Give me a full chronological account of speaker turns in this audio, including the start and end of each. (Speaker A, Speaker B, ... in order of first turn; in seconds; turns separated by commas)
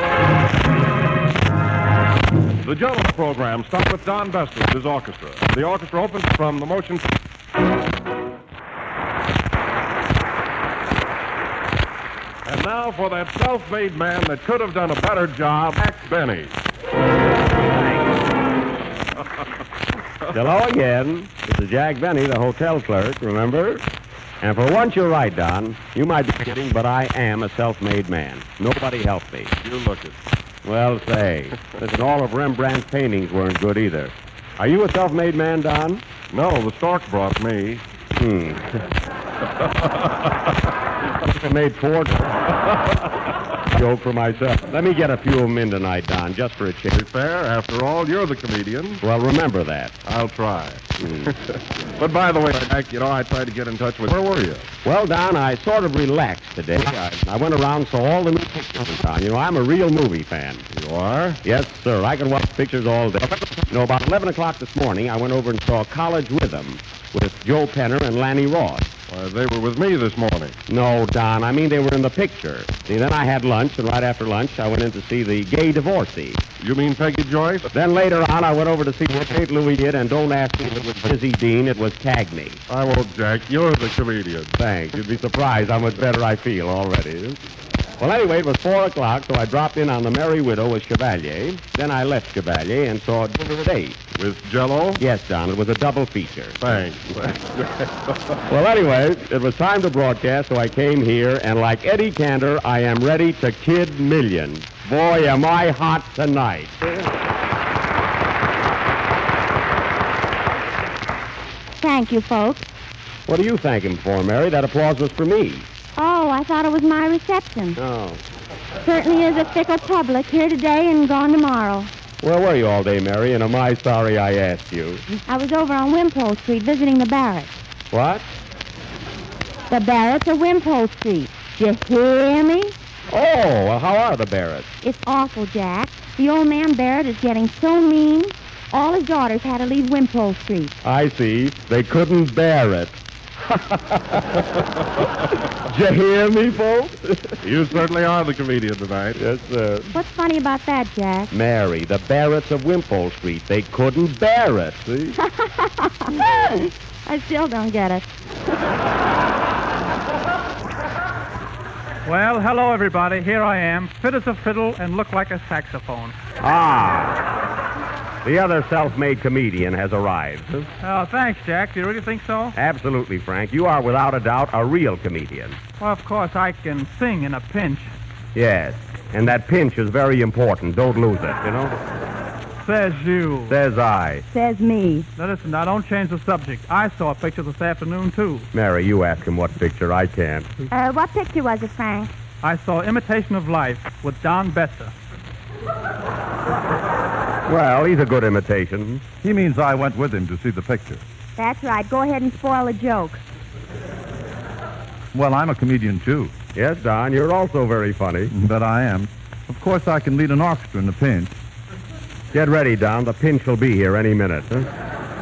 Speaker A: 2.6-7.0, Speaker A: 12.5-16.5, Speaker B: 20.3-23.9, Speaker B: 24.4-29.5, Speaker A: 29.6-30.2, Speaker B: 30.6-36.0, Speaker A: 36.3-37.8, Speaker B: 38.2-38.8, Speaker B: 41.2-42.5, Speaker B: 43.7-47.0, Speaker A: 46.9-49.0, Speaker B: 49.0-50.0, Speaker A: 50.0-51.0, Speaker B: 51.0-51.3, Speaker A: 52.0-54.7, Speaker B: 54.8-60.6, Speaker A: 60.7-61.4, Speaker B: 61.4-68.9, Speaker A: 69.1-70.5, Speaker B: 70.7-76.4, Speaker A: 76.6-77.7, Speaker B: 77.7-82.6, Speaker A: 82.7-84.5, Speaker B: 84.6-87.4, Speaker B: 88.0-94.0, Speaker A: 94.2-95.0, Speaker B: 95.0-96.8, Speaker A: 96.6-97.9, Speaker B: 98.5-107.0, Speaker C: 111.8-112.7, Speaker B: 113.3-115.7, Speaker C: 116.0-117.8, Speaker B: 117.8-118.2, Speaker C: 118.8-121.9, Speaker B: 122.2-125.0, Speaker C: 125.3-127.5, Speaker B: 127.9-128.3, Speaker C: 129.7-132.7, Speaker B: 133.1-134.7, Speaker C: 134.8-140.8, Speaker B: 140.8-144.3, Speaker B: 145.7-147.2, Speaker A: 147.4-149.2, Speaker B: 149.2-149.9, Speaker C: 149.9-151.3, Speaker B: 151.3-155.2, Speaker C: 155.4-158.1, Speaker D: 162.1-166.2, Speaker B: 166.4-167.2, Speaker B: 168.2-170.7, Speaker D: 170.8-172.6, Speaker B: 172.6-175.6, Speaker D: 175.8-177.9, Speaker B: 178.3-181.8, Speaker D: 182.7-183.5, Speaker B: 183.5-184.2, Speaker C: 184.3-185.1, Speaker D: 185.2-188.5, Speaker B: 188.5-190.5, Speaker C: 190.7-192.1, Speaker D: 192.4-194.9, Speaker B: 197.5-199.0, Speaker E: 199.2-201.0, Speaker C: 201.4-203.2, Speaker E: 205.1-206.3, Speaker B: 206.6-208.3, Speaker E: 208.3-211.3, Speaker B: 212.3-214.7